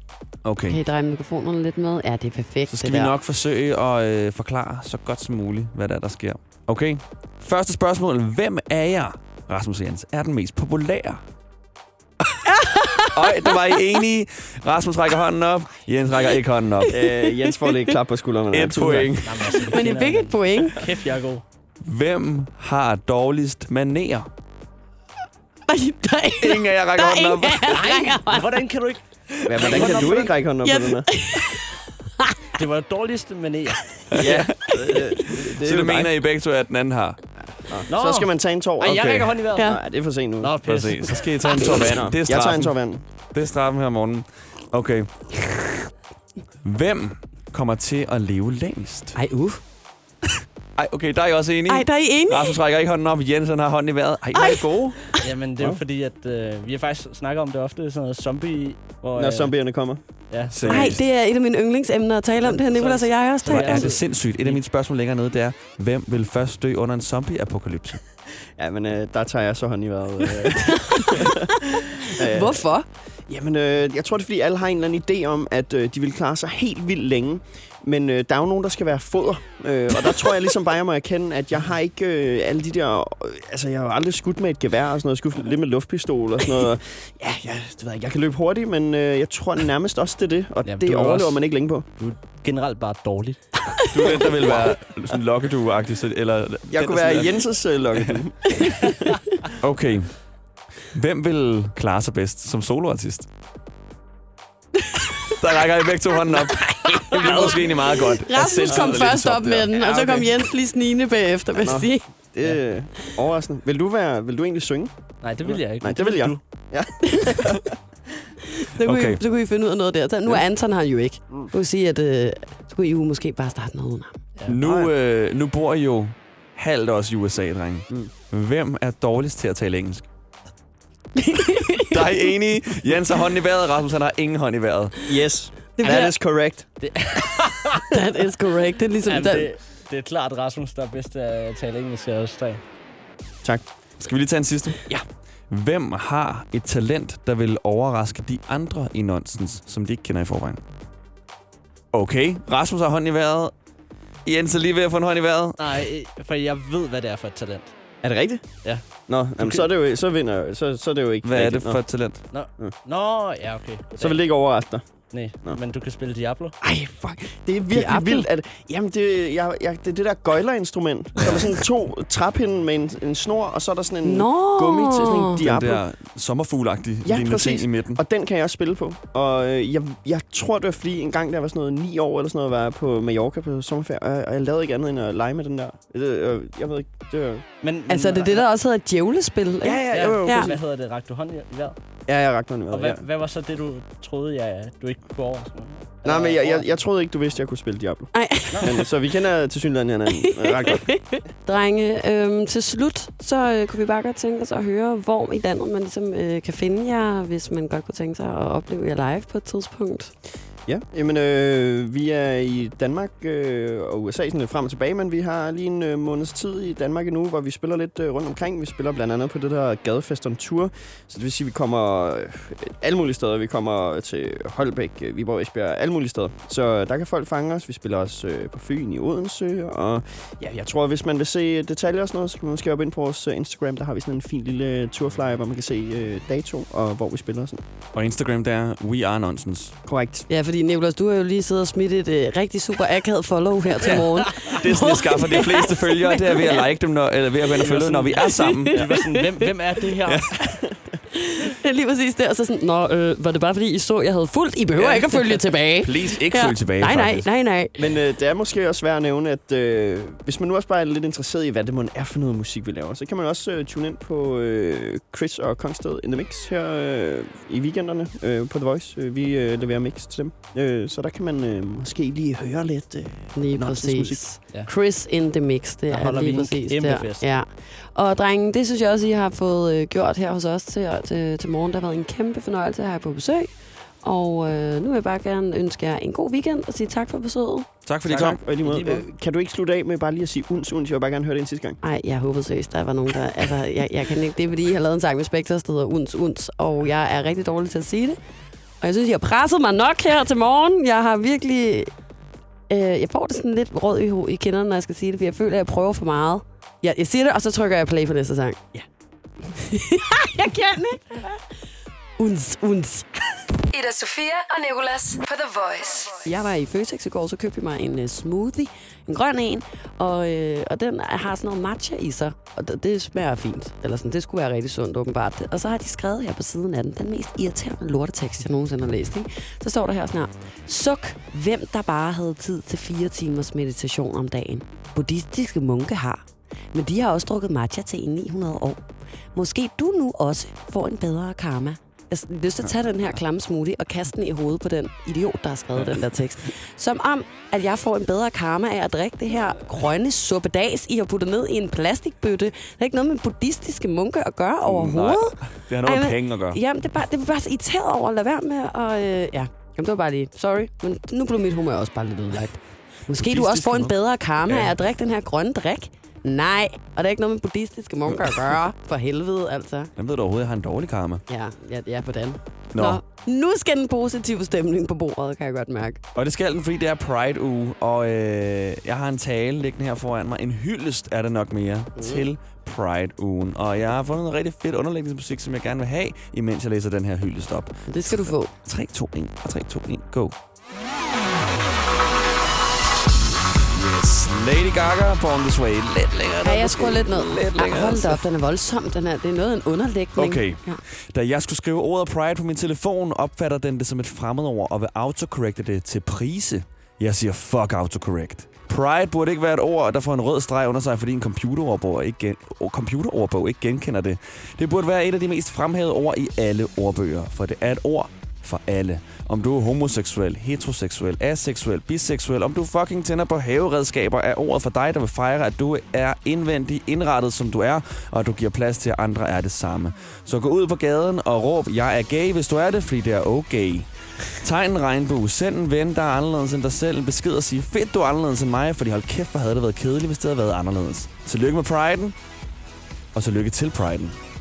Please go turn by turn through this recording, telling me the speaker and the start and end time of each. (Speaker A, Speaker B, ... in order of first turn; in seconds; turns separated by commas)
Speaker A: 0.5-0.8, Speaker B: 0.7-3.1, Speaker A: 2.7-11.2, Speaker B: 12.5-13.5, Speaker A: 13.1-16.9, Speaker B: 16.9-17.8, Speaker C: 16.9-19.3, Speaker A: 18.5-19.4, Speaker D: 19.2-21.4, Speaker B: 19.7-20.8, Speaker A: 21.8-24.3, Speaker B: 25.7-28.6, Speaker A: 26.4-27.8, Speaker D: 27.7-30.3, Speaker C: 29.5-31.1, Speaker B: 30.6-32.5, Speaker D: 32.6-34.0, Speaker A: 34.1-34.5, Speaker C: 34.2-36.1, Speaker A: 35.6-37.2, Speaker C: 37.6-40.6, Speaker D: 37.9-39.7, Speaker D: 40.4-41.3, Speaker A: 40.6-42.8, Speaker C: 41.7-43.0, Speaker A: 43.3-45.5, Speaker A: 46.6-49.2, Speaker B: 49.1-49.6, Speaker A: 50.8-55.1, Speaker B: 51.7-52.6, Speaker B: 54.3-55.2, Speaker D: 55.2-59.6, Speaker C: 59.1-60.0, Speaker D: 60.3-60.9, Speaker A: 60.5-61.0, Speaker B: 60.7-64.0, Speaker D: 62.5-64.6, Speaker A: 63.5-68.0, Speaker C: 68.6-71.5, Speaker B: 70.6-71.3, Speaker B: 72.0-72.9, Speaker C: 72.1-72.6, Speaker C: 73.3-91.9, Speaker D: 90.6-91.4, Speaker D: 92.0-93.6, Speaker A: 93.9-97.4, Speaker C: 96.7-99.0, Speaker A: 99.6-100.2, Speaker A: 100.9-103.3, Speaker B: 104.8-105.3, Speaker A: 105.2-109.7, Speaker B: 106.4-107.5, Speaker B: 108.1-112.1, Speaker C: 109.8-110.2, Speaker C: 111.6-117.8, Speaker D: 115.2-116.4, Speaker B: 117.1-117.5, Speaker B: 118.5-124.2, Speaker A: 118.8-119.2, Speaker D: 124.4-124.9, Speaker A: 124.5-130.1, Speaker B: 131.2-132.3, Speaker A: 131.9-135.0, Speaker C: 135.1-136.7, Speaker B: 135.8-136.1, Speaker D: 136.8-137.8, Speaker B: 137.9-139.5, Speaker D: 139.1-142.6, Speaker A: 144.0-144.9, Speaker A: 145.5-150.6, Speaker A: 151.9-153.5, Speaker A: 154.2-155.6, Speaker D: 155.6-157.8, Speaker C: 158.0-158.6, Speaker C: 159.1-161.8, Speaker D: 159.4-159.7, Speaker A: 161.2-162.2, Speaker D: 162.3-164.2, Speaker C: 164.0-164.9, Speaker D: 165.1-166.6, Speaker C: 166.6-175.8, Speaker B: 167.7-168.3, Speaker D: 171.2-171.5, Speaker B: 174.1-175.4, Speaker A: 175.4-178.0, Speaker C: 177.1-187.5, Speaker D: 187.6-188.4, Speaker B: 187.9-190.5, Speaker C: 189.6-190.6, Speaker D: 189.9-191.8, Speaker C: 192.1-193.1, Speaker D: 192.7-196.7, Speaker C: 196.0-200.9, Speaker B: 198.1-198.9, Speaker B: 200.2-210.1, Speaker C: 210.7-237.6, Speaker A: 237.9-239.8, Speaker C: 239.9-240.3, Speaker B: 240.3-246.6, Speaker A: 243.8-248.8, Speaker D: 247.6-250.3, Speaker B: 248.2-249.5, Speaker C: 250.4-250.7, Speaker B: 251.2-257.8, Speaker A: 255.8-257.3, Speaker C: 257.8-274.3, Speaker B: 273.4-283.5, Speaker D: 275.9-277.2, Speaker B: 284.0-287.7, Speaker A: 287.9-288.4, Speaker C: 288.1-291.8, Speaker D: 288.6-289.1, Speaker B: 291.8-298.2, Speaker B: 298.8-301.9, Speaker B: 302.7-308.7, Speaker B: 309.5-311.4, Speaker B: 312.2-313.1, Speaker E: 313.7-316.2, Speaker B: 316.2-338.8, Speaker B: 339.3-369.9, Speaker A: 354.6-356.6, Speaker A: 363.1-364.0, Speaker A: 364.5-364.7, Speaker A: 370.0-371.2, Speaker B: 371.3-376.0, Speaker A: 372.7-373.0, Speaker A: 376.2-390.3, Speaker B: 382.0-382.3, Speaker B: 387.9-388.5, Speaker A: 393.7-398.2, Speaker B: 396.4-400.8, Speaker A: 400.2-442.1, Speaker A: 443.1-444.2